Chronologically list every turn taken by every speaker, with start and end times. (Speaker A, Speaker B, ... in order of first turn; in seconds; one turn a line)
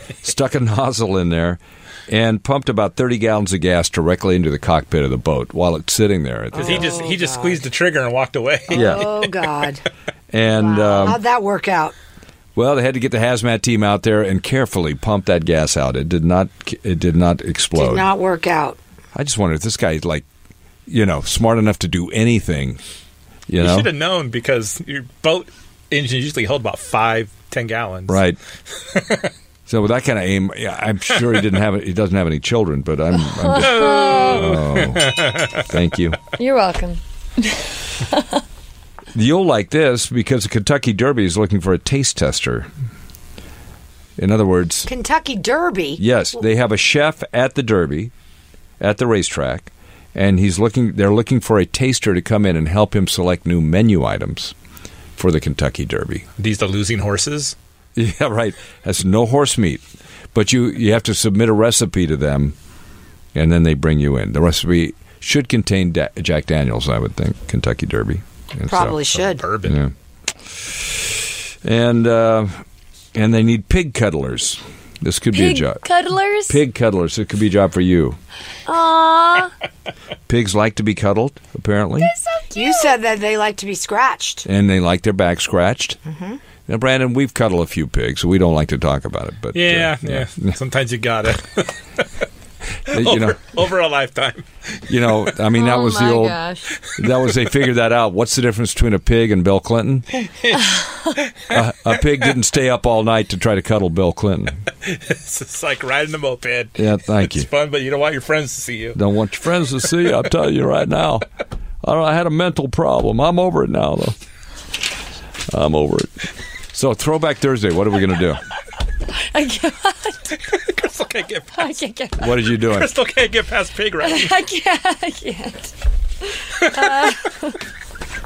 Speaker A: 0.2-6.9
Speaker B: 6.5-7.6
Speaker C: 6.5-9.2
Speaker B: 8.7-9.8
Speaker A: 8.7-9.1
Speaker A: 10.3-11.2
Speaker B: 10.6-11.9
Speaker A: 12.6-18.1
Speaker B: 17.7-18.8
Speaker A: 19.1-20.2
Speaker A: 20.9-22.8
Speaker A: 23.5-23.9
Speaker C: 23.6-28.2
Speaker A: 28.1-28.4
Speaker C: 28.9-29.3
Speaker A: 29.7-36.2
Speaker D: 33.1-34.4
Speaker C: 33.6-35.5
Speaker D: 36.4-38.2
Speaker A: 39.1-42.7
Speaker A: 44.2-44.9
Speaker B: 44.9-46.0
Speaker A: 46.0-48.1
Speaker A: 48.8-54.5
Speaker A: 55.2-56.3
Speaker C: 56.4-57.5
Speaker A: 58.0-59.8
Speaker A: 60.3-62.5
Speaker A: 63.3-69.0
Speaker B: 68.7-69.4
Speaker C: 69.1-69.8
Speaker A: 69.6-69.9
Speaker A: 70.5-72.6
Speaker A: 73.1-75.8
Speaker D: 75.3-76.6
Speaker A: 76.5-78.2
Speaker D: 78.7-79.5
Speaker A: 80.3-82.1
Speaker D: 82.0-82.9
Speaker B: 82.5-84.5
Speaker A: 84.5-86.0
Speaker B: 86.1-86.4
Speaker A: 86.7-90.5
Speaker C: 89.5-92.0
Speaker A: 92.9-93.5
Speaker C: 92.9-94.5
Speaker A: 94.9-96.4
Speaker D: 95.5-96.7
Speaker A: 97.0-100.1
Speaker C: 100.1-102.0
Speaker A: 101.5-104.6
Speaker C: 104.8-109.0
Speaker A: 106.8-107.5
Speaker A: 108.9-111.2
Speaker A: 111.8-114.2
Speaker A: 115.5-118.4
Speaker D: 119.1-120.2
Speaker C: 120.3-121.7
Speaker D: 121.5-122.4
Speaker A: 122.2-122.9
Speaker C: 122.7-124.4
Speaker D: 124.0-125.7
Speaker D: 126.2-127.6